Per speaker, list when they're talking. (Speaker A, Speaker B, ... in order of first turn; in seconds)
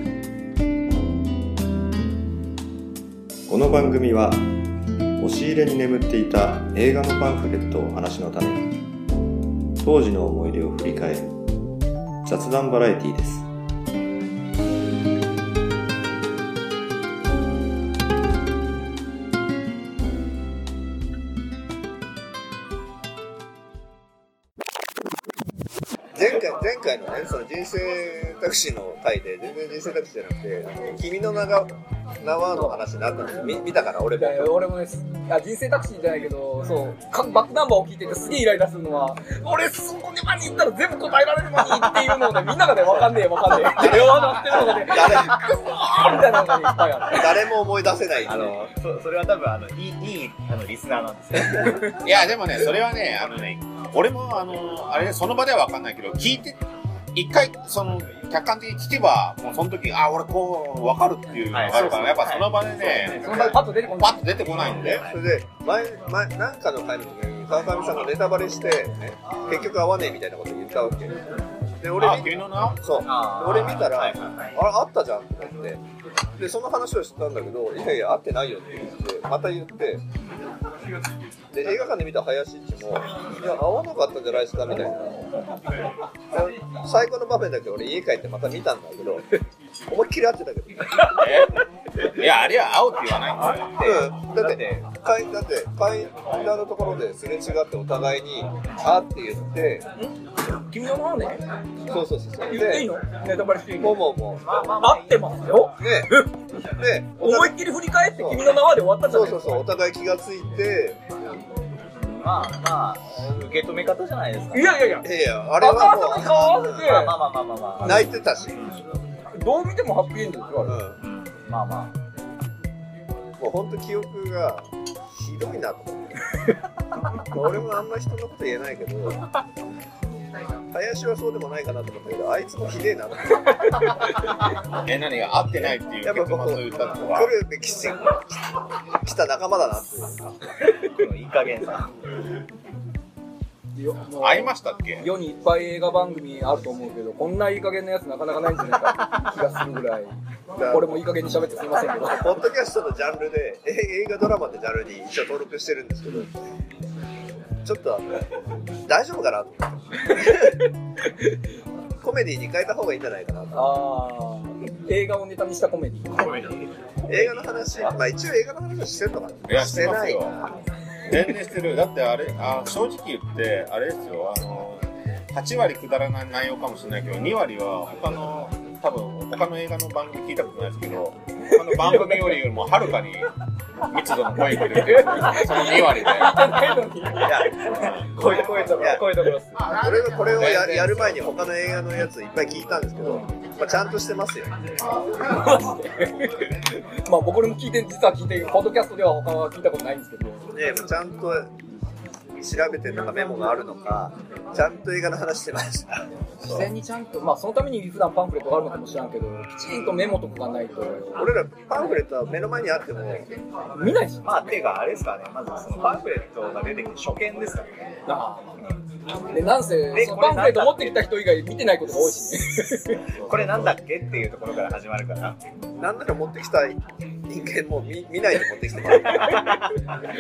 Speaker A: 3.5-4.5, 5.2-8.7, 9.8-11.3, 12.2-13.5
Speaker B: 26.1-34.6, 43.5-45.6, 47.0-48.7, 64.8-71.2, 71.8-75.8, 76.4-80.0, 81.5-85.2, 86.3-89.4, 89.9-91.1, 93.8-99.9, 101.9-102.9, 103.8-104.6, 105.8-106.1, 106.8-107.5, 108.1-108.5, 109.1-111.0, 115.0-116.9, 117.8-118.6, 120.6-121.0, 123.4-126.3, 127.2-129.2, 130.7-133.9, 136.0-140.3, 150.6-151.0, 152.1-156.3, 157.6-158.3, 158.8-160.5, 162.0-163.7, 167.1-170.5, 187.2-187.6, 188.6-189.1, 189.7-194.5, 200.5-201.5, 202.4-206.7, 211.2-213.4, 225.8-229.5
Speaker C: 32.5-32.8, 33.3-47.4, 51.5-52.0, 61.7-62.0, 63.1-64.4, 100.0-101.4, 102.5-104.1, 104.8-106.3, 107.2-109.6, 114.5-117.2, 119.3-120.8, 143.7-150.1, 150.7-152.4, 160.2-160.5, 163.5-166.3, 167.1-167.4, 181.5-182.6, 184.4-189.6, 195.2-200.5, 206.4-211.3, 213.8-214.3, 218.1-218.5, 219.3-223.0
Speaker D: 48.2-51.9, 61.5-63.5, 64.8-65.1, 73.0-74.3, 93.5-94.8, 104.4-105.7, 112.0-114.9, 116.7-118.0, 121.0-121.9, 140.8-141.9, 166.2-167.3, 214.2-217.8, 219.9-221.1, 223.2-225.4
Speaker E: 52.0-56.6, 57.1-65.0, 71.9-72.8, 91.0-93.7, 134.8-137.3, 144.2-145.1, 169.4-170.4, 171.0-183.3, 183.9-186.6, 187.7-188.7, 190.3-191.1, 223.1-223.7